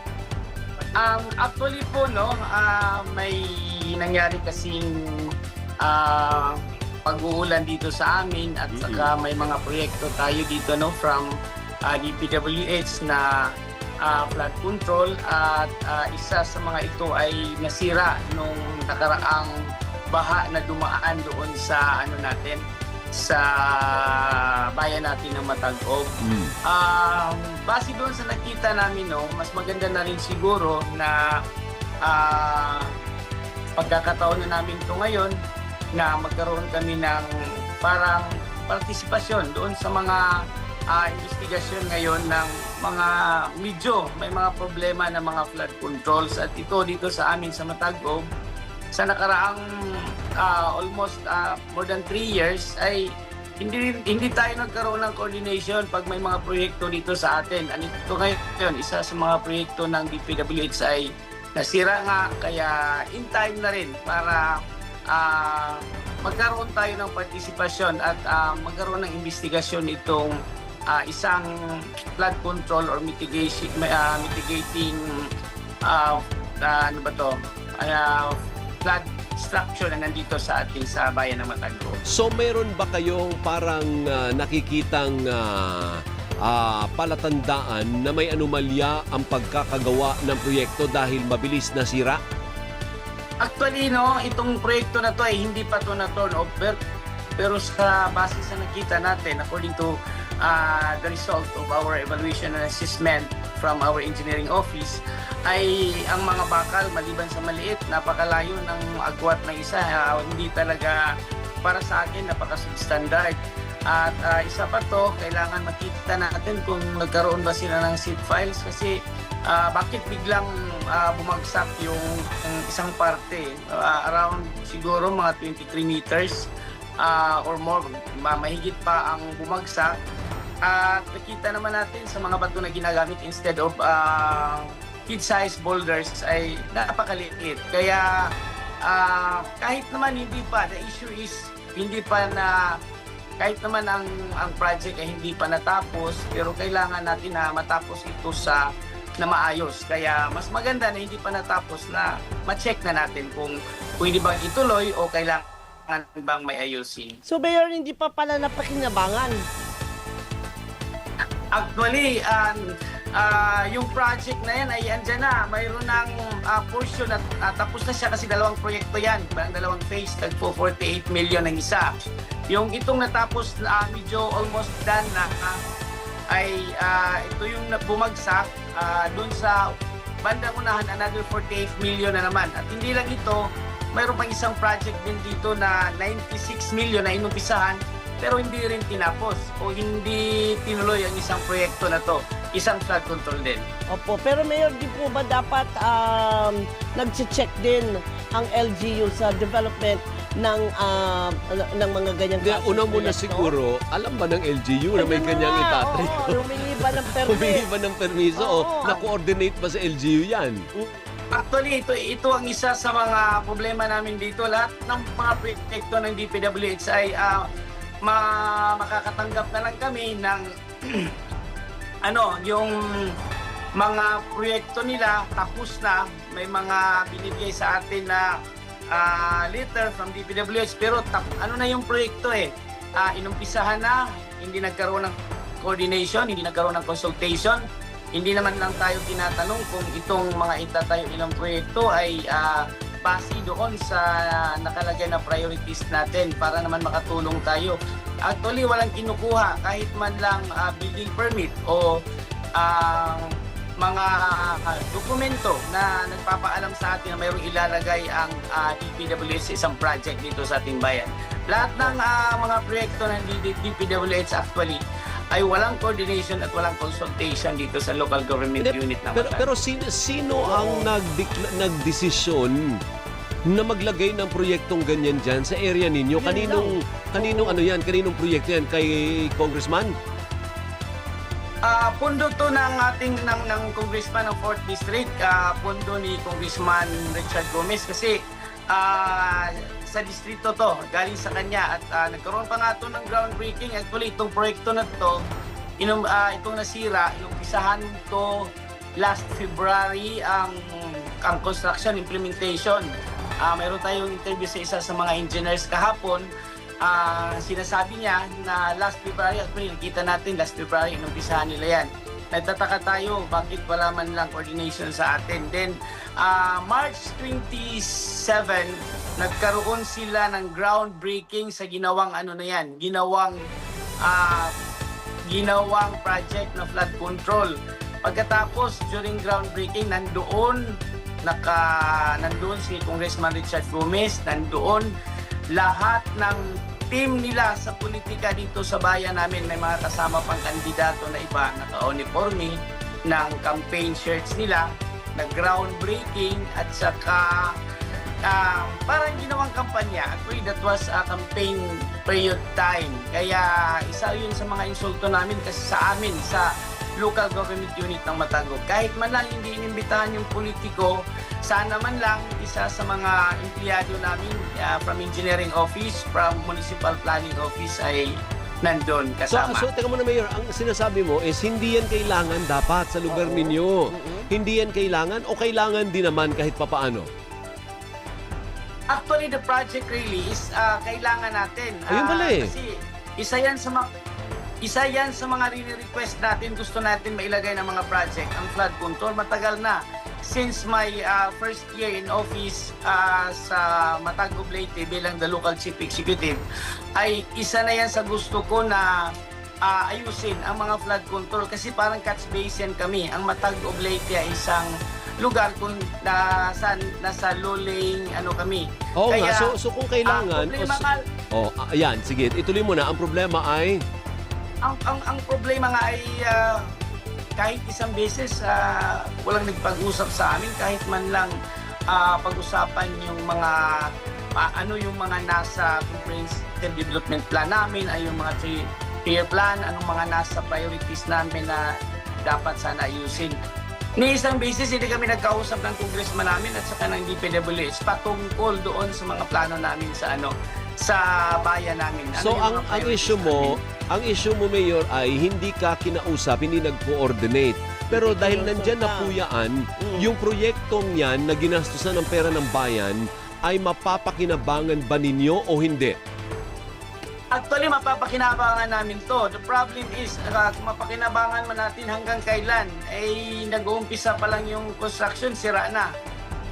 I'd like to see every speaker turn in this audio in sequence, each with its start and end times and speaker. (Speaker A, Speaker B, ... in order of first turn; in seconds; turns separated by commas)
Speaker A: 1.0-5.0, Speaker A: 5.8-11.3, Speaker B: 8.7-9.1, Speaker A: 11.9-13.5, Speaker A: 14.0-19.5, Speaker A: 20.1-22.6, Speaker A: 23.1-26.1, Speaker B: 26.2-26.5, Speaker A: 26.7-31.4, Speaker A: 32.0-32.9, Speaker A: 33.8-35.4, Speaker A: 36.0-37.3, Speaker A: 37.8-40.2, Speaker A: 40.9-48.3, Speaker A: 48.9-49.6, Speaker A: 50.4-53.0, Speaker A: 53.6-64.5, Speaker A: 65.1-70.3, Speaker A: 70.9-71.5, Speaker A: 72.2-75.0, Speaker A: 75.9-78.3, Speaker A: 78.8-82.0, Speaker B: 82.1-92.2, Speaker A: 93.4-96.8, Speaker A: 97.4-111.0, Speaker A: 111.6-119.0, Speaker A: 119.5-126.5, Speaker A: 127.0-130.0, Speaker A: 130.7-138.1, Speaker A: 138.9-142.6, Speaker A: 143.4-148.6, Speaker A: 149.2-157.2, Speaker C: 157.2-159.4, Speaker A: 161.5-162.6, Speaker A: 163.2-171.9, Speaker A: 172.5-175.6, Speaker A: 176.3-179.7, Speaker A: 180.2-183.4, Speaker A: 183.9-193.7, Speaker C: 193.9-203.5, Speaker B: 202.4-210.7, Speaker C: 205.0-207.7, Speaker C: 208.4-209.0, Speaker A: 211.3-217.4, Speaker A: 218.0-221.1, Speaker A: 222.1-222.7, Speaker A: 223.8-228.3, Speaker A: 228.9-237.6, Speaker A: 238.1-252.0, Speaker A: 252.6-253.3, Speaker A: 253.8-269.5, Speaker B: 268.6-272.6, Speaker C: 270.4-270.9, Speaker B: 273.5-279.9, Speaker C: 276.2-277.6, Speaker A: 281.7-295.2, Speaker A: 295.8-298.3, Speaker A: 299.0-300.6, Speaker A: 301.2-302.9, Speaker A: 303.4-306.3, Speaker A: 306.8-323.4, Speaker A: 324.1-324.5, Speaker A: 325.3-330.6, Speaker A: 331.2-334.9, Speaker A: 335.5-347.5, Speaker A: 348.3-368.1, Speaker A: 368.6-369.7, Speaker B: 369.3-377.1, Speaker C: 373.1-374.3, Speaker A: 378.9-383.9, Speaker B: 381.9-382.5, Speaker A: 384.6-396.4, Speaker A: 397.0-398.9, Speaker A: 399.7-404.7, Speaker A: 405.2-409.5, Speaker B: 409.0-413.8, Speaker A: 410.1-411.0, Speaker A: 414.6-416.6, Speaker A: 417.4-421.3, Speaker A: 421.9-431.6, Speaker A: 432.3-433.4, Speaker A: 434.0-443.6, Speaker B: 442.2-456.0, Speaker C: 447.9-449.2, Speaker C: 449.8-450.1, Speaker A: 457.3-465.9